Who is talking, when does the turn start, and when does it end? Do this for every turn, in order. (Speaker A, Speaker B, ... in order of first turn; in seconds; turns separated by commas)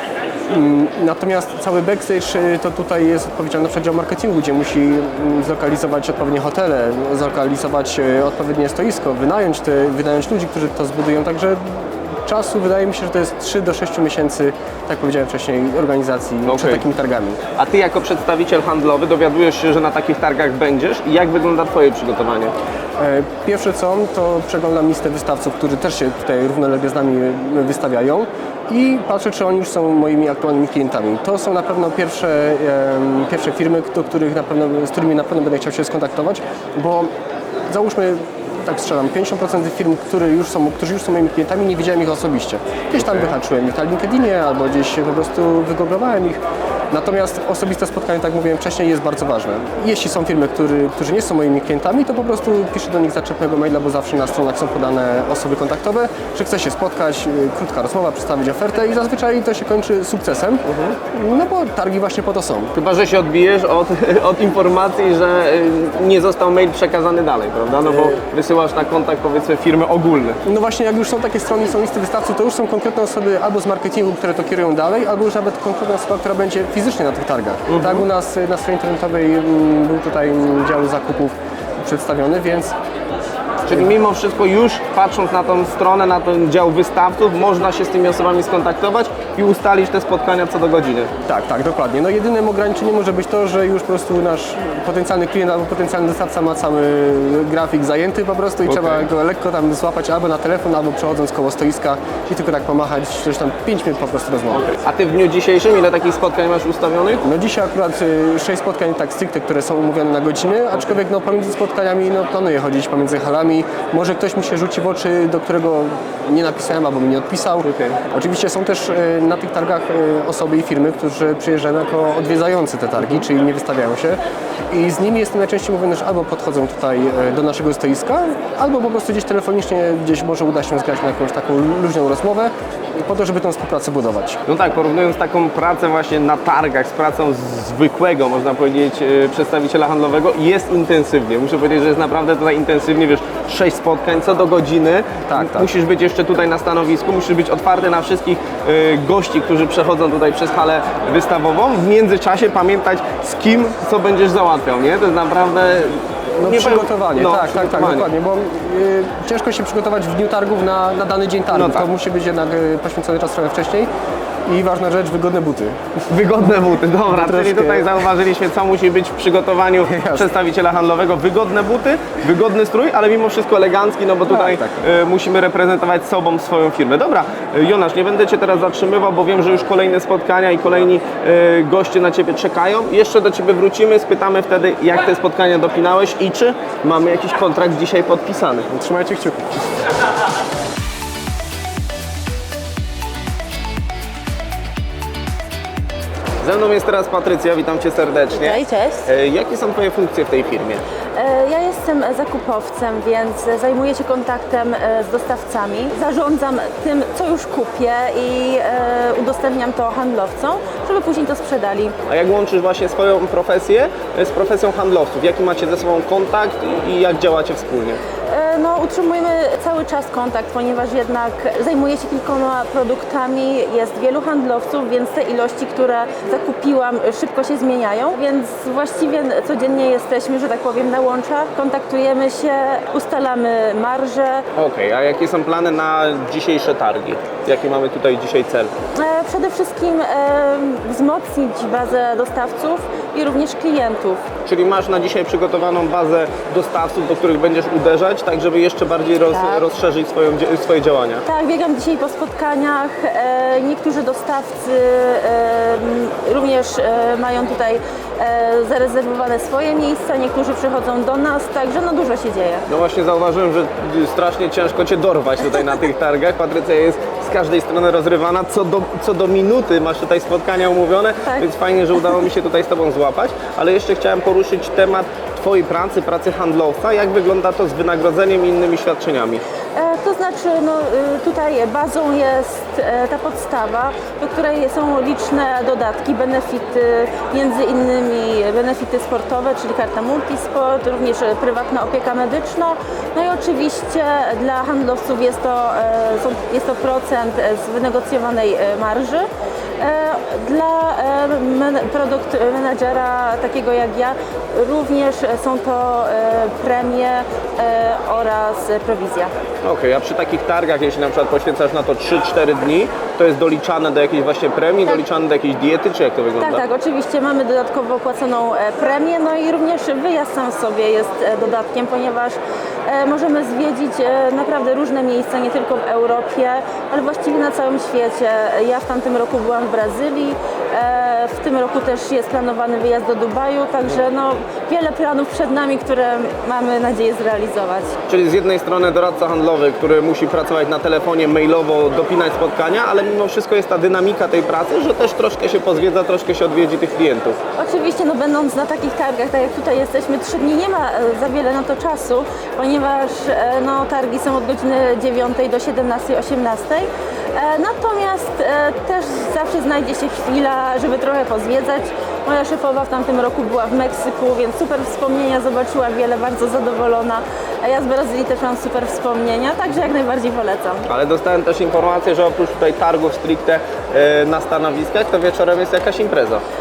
Speaker A: 0.5-17.4, Speaker B: 16.4-16.8, Speaker B: 17.6-22.5, Speaker A: 23.0-37.1, Speaker A: 37.7-62.7, Speaker B: 43.0-43.3, Speaker B: 60.6-61.0, Speaker B: 62.7-70.4, Speaker A: 67.9-68.2, Speaker A: 70.5-82.7, Speaker B: 77.7-78.0, Speaker B: 83.7-91.1, Speaker A: 91.3-104.7, Speaker B: 98.7-99.0, Speaker B: 104.7-107.2, Speaker A: 107.2-124.2, Speaker B: 117.6-118.0, Speaker A: 124.7-134.4, Speaker B: 134.5-158.1, Speaker A: 145.3-145.7, Speaker A: 156.4-163.9, Speaker B: 161.5-161.9, Speaker A: 164.5-165.8, Speaker B: 166.1-188.7, Speaker A: 167.1-168.0, Speaker A: 169.9-170.3, Speaker A: 188.7-189.6, Speaker B: 196.4-200.8, Speaker C: 198.3-199.1, Speaker C: 201.2-211.9, Speaker B: 212.1-218.0, Speaker C: 218.3-234.4, Speaker B: 234.6-238.7, Speaker C: 239.0-244.2, Speaker B: 244.5-251.2, Speaker C: 251.3-262.7, Speaker B: 262.7-279.4, Speaker C: 279.8-299.3, Speaker C: 299.8-309.3, Speaker B: 309.6-316.6, Speaker C: 316.4-338.0, Speaker B: 338.1-347.4, Speaker C: 347.6-370.9, Speaker B: 370.9-376.4